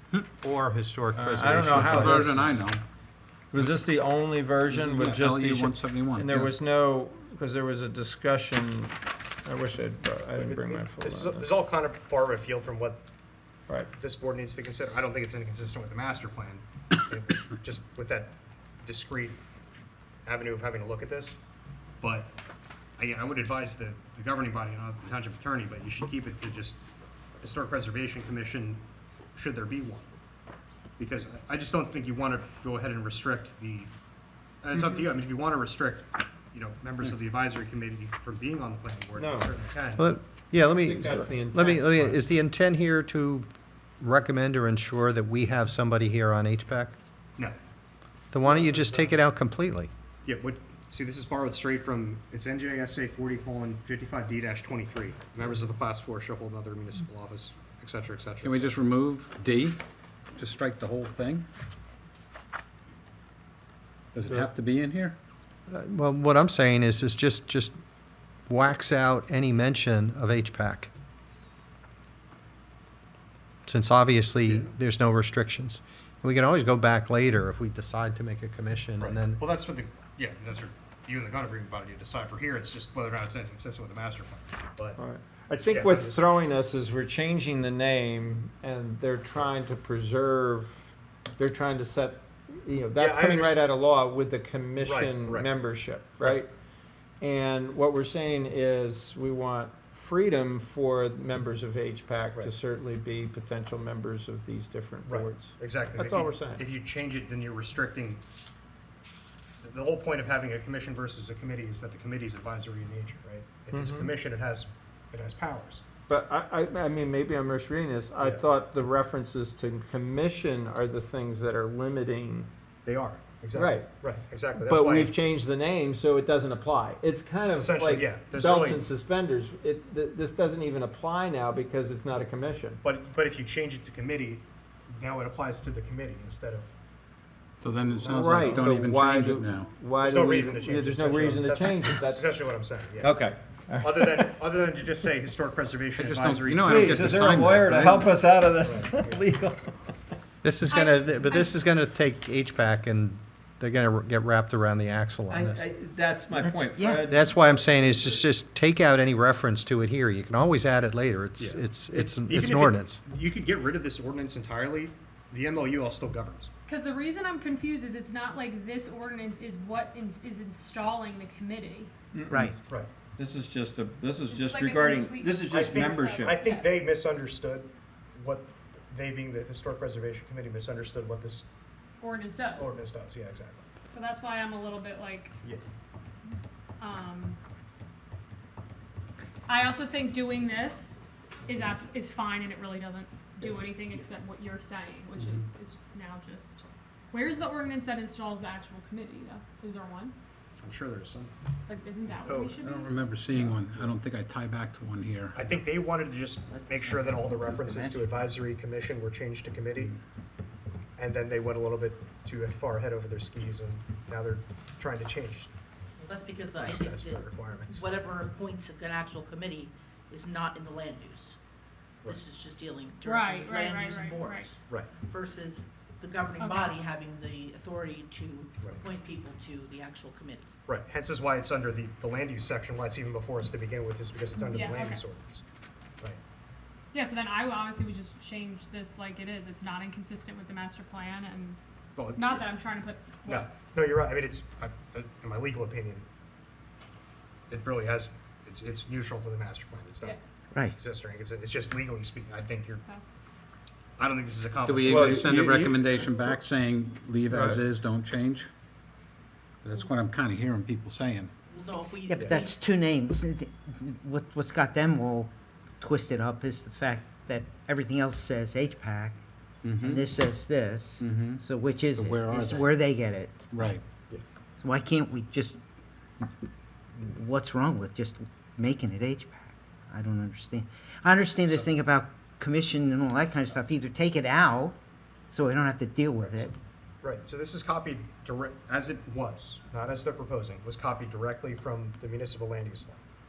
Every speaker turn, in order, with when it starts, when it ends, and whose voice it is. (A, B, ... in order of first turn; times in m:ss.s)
0:00.3-0:02.2 A
0:01.1-0:02.5 B
0:01.8-0:02.8 C
0:03.5-0:11.5 B
0:04.7-0:06.6 C
0:10.4-0:13.0 D
0:13.9-0:19.4 D
0:20.2-0:21.4 D
0:22.0-0:22.3 D
0:23.0-0:26.8 D
0:27.4-0:28.8 D
0:29.4-0:30.1 D
0:31.0-0:33.9 D
0:34.6-0:40.1 D
0:39.2-0:39.5 B
0:40.0-0:43.5 A
0:40.6-0:42.2 B
0:44.0-0:46.9 A
0:48.3-0:49.9 A
0:48.4-0:49.2 B
0:50.2-0:58.8 D
0:58.4-0:59.8 C
1:00.4-1:01.5 C
1:04.1-1:05.2 C
1:05.7-1:07.8 A
1:08.5-1:10.9 A
1:13.7-1:19.4 A
1:14.4-1:14.7 D
1:19.0-1:25.0 D
1:25.0-1:36.5 B
1:25.6-1:26.2 D
1:33.0-1:33.6 D
1:34.8-1:35.5 D
1:37.2-1:46.6 B
1:45.1-1:48.2 D
1:49.6-1:55.8 D
1:53.7-1:54.1 B
1:56.1-2:02.5 B
2:02.8-2:05.1 D
2:03.5-2:03.9 B
2:04.6-2:12.8 B
2:07.6-2:08.9 D
2:12.8-2:16.7 D
2:17.6-2:19.7 C
2:17.9-2:18.7 D
2:18.1-2:22.4 B
2:20.0-2:23.2 D
2:23.0-2:24.4 B
2:23.8-2:27.4 D
2:26.0-2:28.1 C
2:26.7-2:29.9 B
2:28.6-2:29.2 D
2:30.4-2:35.7 A
2:30.6-2:31.6 E
2:35.3-2:37.3 B
2:36.3-2:37.1 F
2:37.1-2:43.0 A
2:41.4-2:46.5 D
2:46.7-2:51.9 E
2:52.1-2:52.5 B
2:52.3-2:52.6 F
2:53.2-2:56.4 B
2:54.3-2:56.8 E
2:55.5-3:01.5 D
3:02.0-3:02.8 E
3:02.6-3:03.7 D
3:03.9-3:05.3 E
3:06.8-3:07.4 E
3:09.5-3:20.2 E
3:13.4-3:14.1 D
3:15.2-3:15.4 C
3:20.6-3:21.3 D
3:21.7-3:23.0 E
3:22.2-3:22.5 D
3:22.6-3:25.4 C
3:23.3-3:23.8 D
3:25.3-3:30.0 D
3:26.5-3:28.4 F
3:31.0-3:35.5 D
3:36.0-3:41.4 G
3:36.6-3:38.0 D
3:42.1-3:50.5 G
3:43.0-3:44.5 E
3:46.4-3:46.8 E
3:50.7-3:55.4 D
3:54.4-3:55.0 E
3:56.9-4:01.6 E
4:02.0-4:02.5 D
4:02.1-4:03.5 E
4:03.2-4:06.0 D
4:07.5-4:10.2 D
4:10.8-4:12.8 D
4:14.0-4:15.8 D
4:14.6-4:18.5 C
4:14.9-4:15.8 B
4:17.3-4:17.6 B
4:19.6-4:21.3 C
4:21.5-4:22.6 G
4:22.1-4:29.2 F
4:22.2-4:22.4 D
4:29.6-4:30.1 C
4:29.8-4:33.4 F
4:31.0-4:31.4 C
4:31.9-4:32.8 C
4:33.5-4:33.8 C
4:34.6-4:35.6 F
4:37.0-4:44.8 F
4:45.3-4:46.5 F
4:46.2-4:53.0 D